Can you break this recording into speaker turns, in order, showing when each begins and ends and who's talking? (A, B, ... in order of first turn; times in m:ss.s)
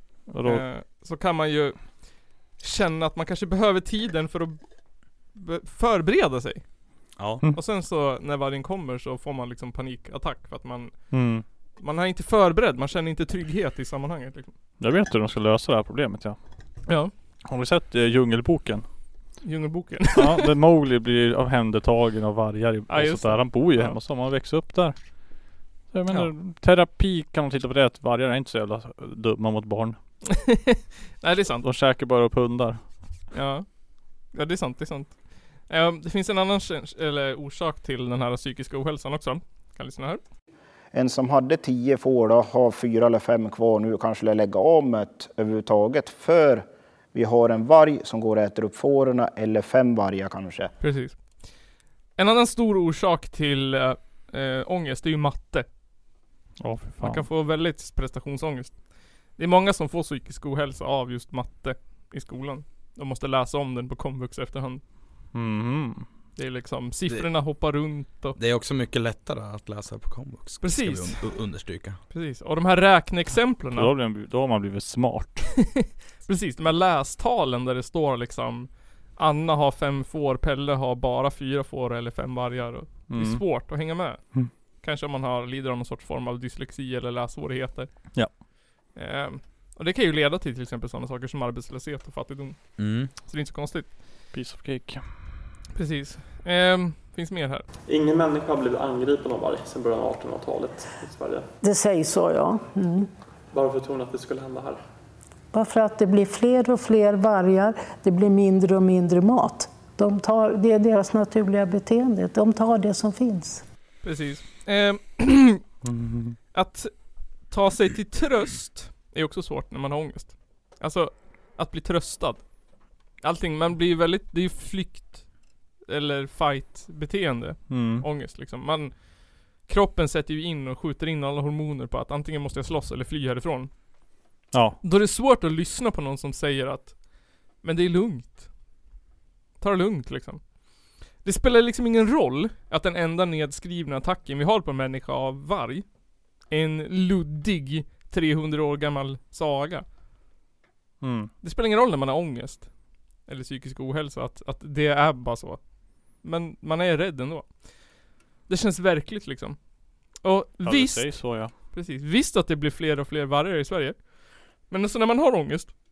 0:00.2-0:04.6 A
0:00.3-0:00.6 B
0:05.2-0:06.7 A
0:07.2-0:07.4 C
0:07.5-0:11.2 A
0:11.1-0:11.4 B
0:11.8-0:14.5 A
0:14.8-0:16.4 B
0:17.5-0:18.8 B
0:19.4-0:20.5 A
0:20.2-0:30.0 B
0:22.9-0:24.0 A
0:30.3-0:31.6 A
0:31.6-0:32.9 B
0:33.3-0:40.2 A
0:40.9-0:50.7 D
0:50.8-0:51.4 A
0:52.2-0:55.7 A
0:56.6-0:57.3 B
0:57.0-0:58.8 A
0:59.3-1:04.8 A
1:05.3-1:06.1 B
1:06.4-1:08.4 A
1:08.4-1:12.0 C
1:10.6-1:11.2 A
1:12.1-1:13.9 A
1:13.7-1:15.6 B
1:15.8-1:27.9 A
1:23.1-1:23.4 B
1:29.0-1:33.9 A
1:32.8-1:33.1 C
1:34.3-1:35.1 B
1:35.8-1:37.6 A
1:37.9-1:41.5 E
1:41.6-1:43.1 F
1:43.5-1:44.8 E
1:45.5-1:53.6 F
1:54.0-1:55.6 A
1:55.8-1:56.4 B
1:56.5-2:02.4 A
2:03.2-2:05.3 A
2:05.9-2:13.7 A
2:07.7-2:08.1 B
2:14.5-2:14.8 B
2:14.8-2:17.0 A
2:17.6-2:18.5 A
2:19.6-2:20.4 A
2:21.2-2:25.9 A
2:26.4-2:29.8 A
2:31.0-2:31.3 B
2:31.4-2:32.7 A
2:33.2-2:35.6 A
2:36.2-2:37.6 A
2:38.5-2:39.6 A
2:40.1-2:44.1 A
2:40.6-2:41.5 B
2:44.7-2:45.8 A